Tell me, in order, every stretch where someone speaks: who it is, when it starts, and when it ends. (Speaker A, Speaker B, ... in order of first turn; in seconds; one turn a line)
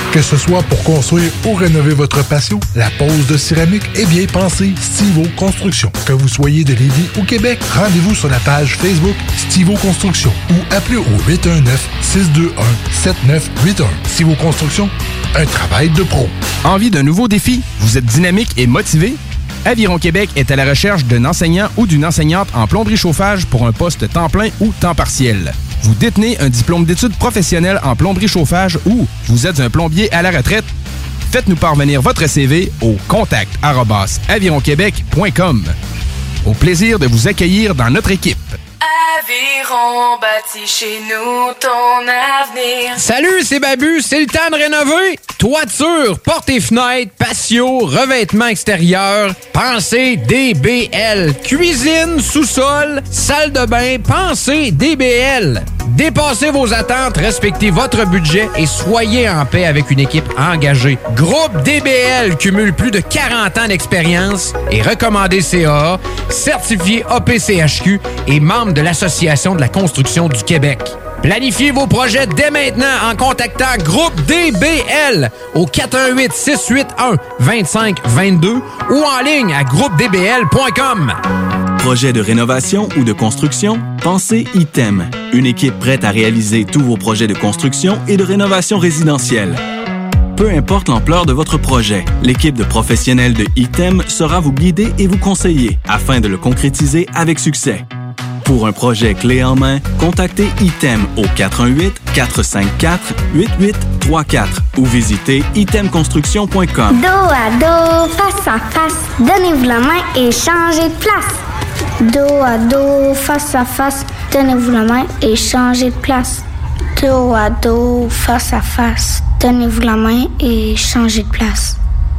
Speaker A: 0.1-14.9
Speaker A: 15.5-16.3
Speaker B: 16.6-30.7
Speaker B: 31.3-35.7
Speaker B: 36.4-38.6
Speaker C: 38.8-43.0
Speaker D: 43.0-81.2
Speaker E: 81.8-89.6
Speaker E: 90.4-97.8
Speaker E: 98.4-107.0
Speaker F: 106.9-111.4
Speaker F: 112.0-116.4
Speaker F: 117.0-121.8